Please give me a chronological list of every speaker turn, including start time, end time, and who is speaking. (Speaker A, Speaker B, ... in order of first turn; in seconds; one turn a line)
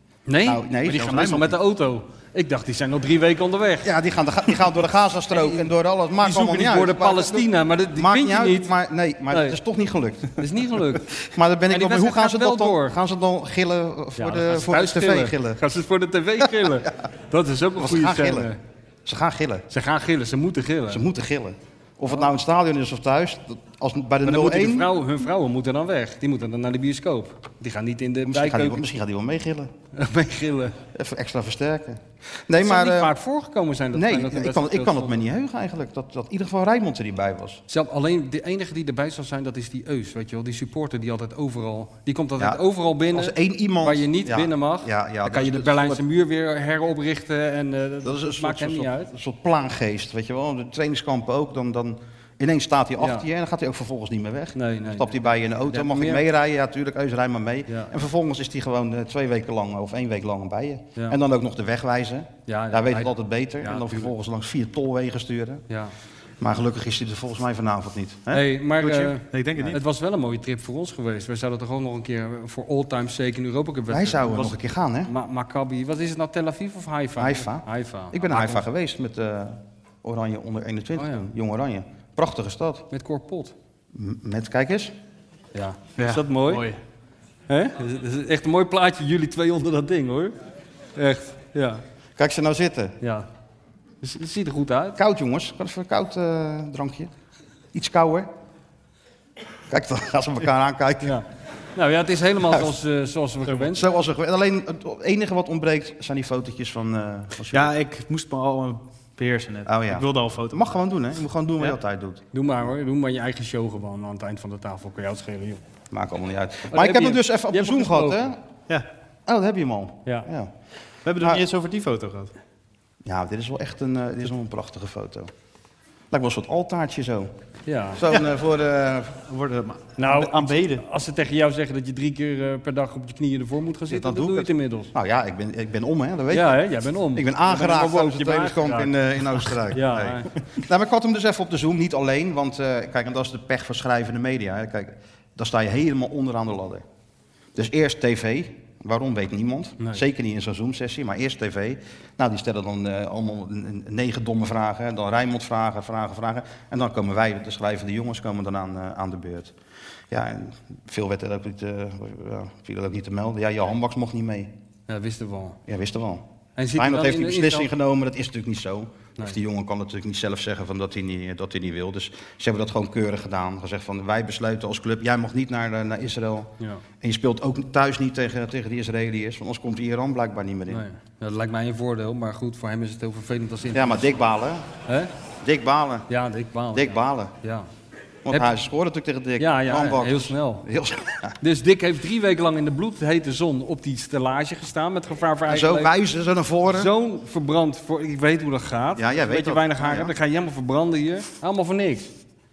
Speaker A: 0.3-3.9
Speaker B: 0.4-1.6
Speaker B: 3.8-10.4
Speaker A: 5.3-5.7
Speaker A: 6.2-8.7
Speaker A: 9.3-9.6
Speaker A: 10.4-11.1
Speaker B: 11.2-15.6
Speaker A: 11.7-12.9
Speaker A: 14.2-18.6
Speaker B: 17.8-18.5
Speaker B: 19.1-19.6
Speaker A: 19.7-21.1
Speaker B: 20.9-24.9
Speaker A: 24.2-28.8
Speaker B: 28.2-29.7
Speaker A: 29.9-30.8
Speaker B: 30.9-33.1
Speaker A: 32.6-35.1
Speaker B: 33.9-37.6
Speaker A: 37.7-49.1
Speaker B: 42.4-46.0
Speaker B: 48.0-65.6
Speaker A: 53.0-53.2
Speaker A: 54.6-56.2
Speaker A: 62.5-64.1
Speaker A: 65.7-65.9
Speaker B: 66.4-68.5
Speaker A: 68.3-78.6
Speaker C: 68.8-69.8
Speaker B: 73.9-75.1
Speaker B: 77.2-82.9
Speaker A: 81.0-81.3
Speaker A: 82.9-83.5
Speaker B: 83.9-84.9
Speaker A: 85.5-86.7
Speaker C: 86.0-86.8
Speaker A: 87.5-90.3
Speaker A: 90.9-91.8
Speaker B: 92.2-93.0
Speaker A: 93.0-93.3
Speaker A: 94.0-95.0
Speaker B: 95.0-97.1
Speaker B: 97.7-98.3
Speaker B: 99.7-101.2
Speaker A: 101.0-103.9
Speaker B: 103.7-107.7
Speaker C: 107.5-110.7
Speaker B: 109.7-112.2
Speaker A: 112.3-115.6
Speaker B: 115.9-118.4
Speaker A: 116.7-118.2
Speaker B: 119.2-120.5
Speaker C: 121.0-122.3
Speaker B: 121.2-121.4
Speaker B: 123.0-125.3
Speaker B: 126.1-127.3
Speaker A: 127.7-128.0
Speaker B: 127.9-129.2
Speaker C: 128.1-128.4
Speaker C: 129.2-130.8
Speaker A: 130.0-134.9
Speaker B: 133.9-136.5
Speaker A: 136.3-140.3
Speaker B: 137.1-146.8
Speaker B: 147.6-159.5
Speaker B: 160.1-164.5
Speaker A: 164.9-165.6
Speaker B: 165.7-180.8
Speaker A: 166.6-167.7
Speaker A: 180.7-184.2
Speaker B: 183.7-184.7
Speaker B: 185.4-186.1
Speaker A: 186.1-187.7
Speaker B: 186.7-187.3
Speaker B: 188.2-191.4
Speaker A: 189.4-190.6
Speaker A: 191.4-195.9
Speaker B: 195.5-196.9
Speaker A: 196.7-202.1
Speaker B: 198.9-200.1